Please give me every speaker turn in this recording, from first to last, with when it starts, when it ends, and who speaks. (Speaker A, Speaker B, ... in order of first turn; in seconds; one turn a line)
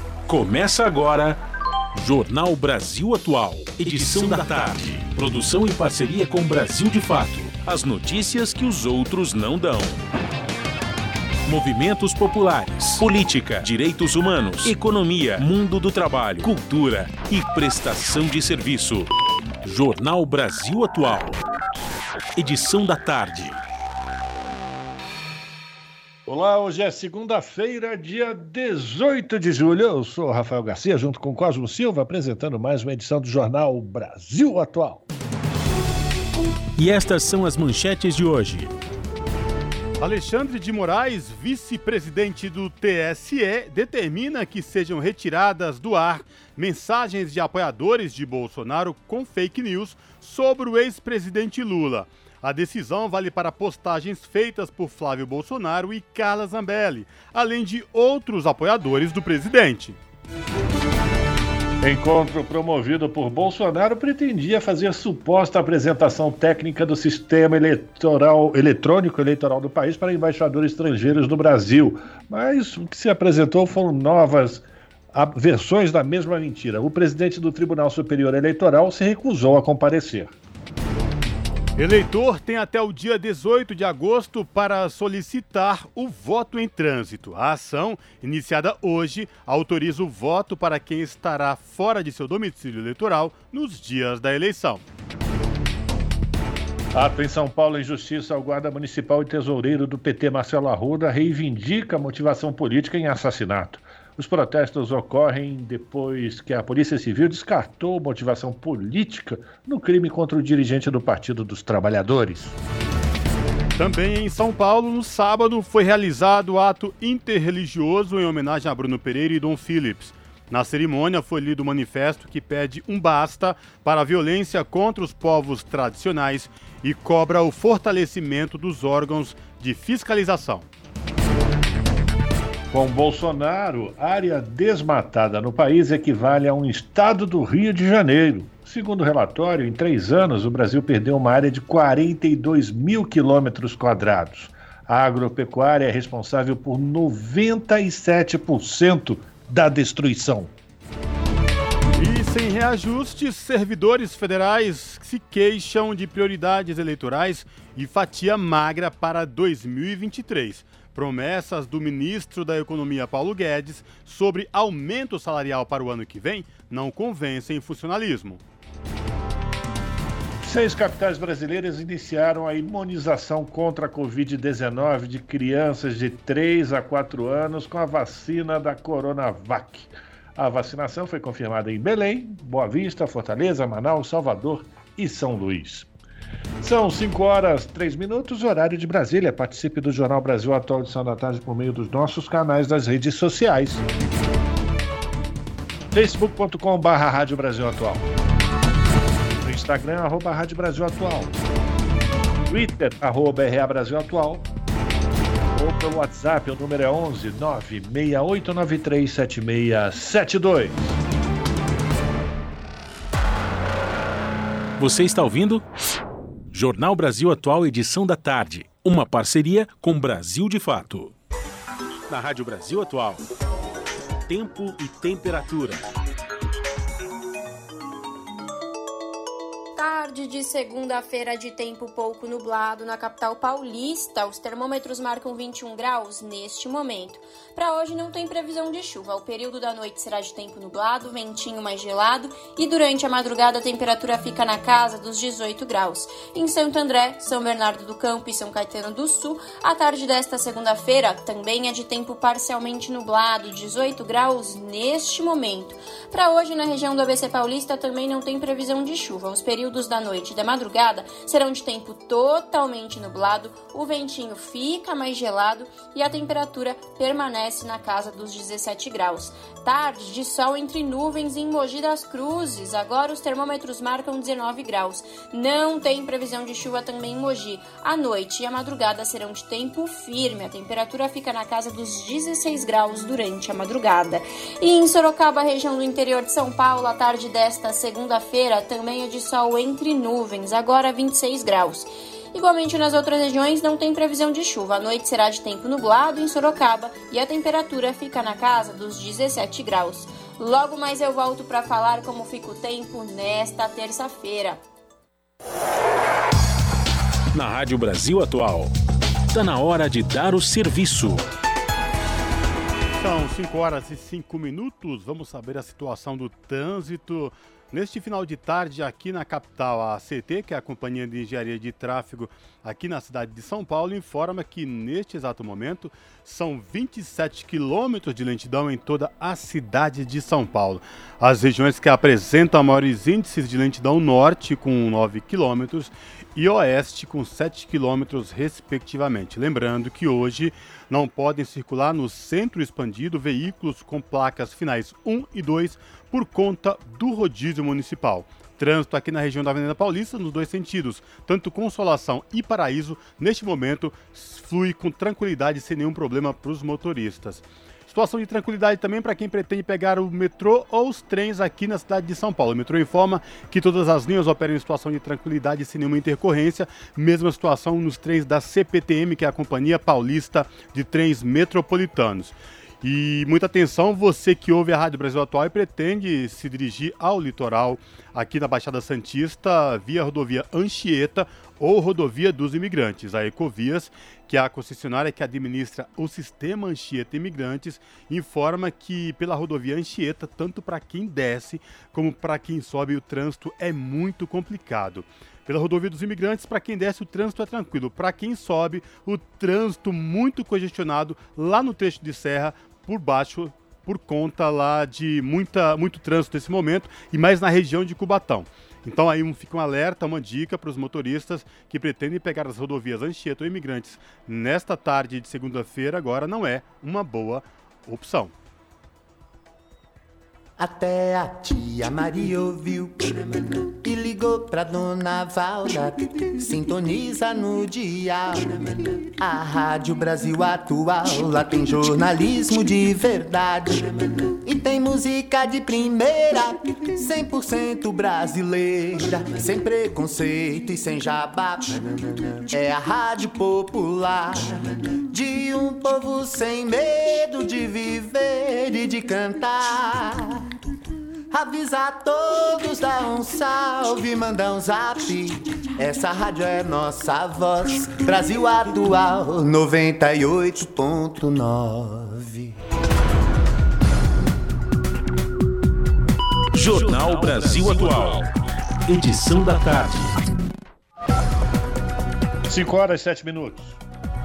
Speaker A: 0.3-1.4
Speaker A: 2.0-10.0
Speaker A: 11.5-19.1
Speaker A: 19.6-21.4
Speaker A: 22.4-23.6
Speaker B: 26.3-35.0
Speaker A: 36.8-38.7
Speaker C: 40.0-60.0
Speaker B: 61.8-80.3
Speaker C: 81.8-94.8
Speaker B: 96.9-112.6
Speaker C: 113.8-130.7
Speaker B: 132.7-150.5
Speaker C: 151.9-168.4
Speaker B: 170.4-185.9
Speaker B: 186.6-193.8
Speaker B: 195.9-198.1
Speaker B: 199.4-201.4
Speaker B: 202.5-204.5
Speaker B: 205.6-210.8
Speaker A: 214.8-215.6
Speaker A: 216.5-221.1
Speaker A: 222.1-223.2
Speaker A: 224.3-225.9
Speaker D: 229.8-304.6
Speaker A: 307.3-308.7
Speaker A: 309.3-311.2
Speaker C: 313.0-418.3
Speaker E: 420.6-450.5
Speaker E: 451.3-462.6
Speaker A: 466.5-468.3
Speaker A: 468.9-470.2
Speaker B: 472.5-473.8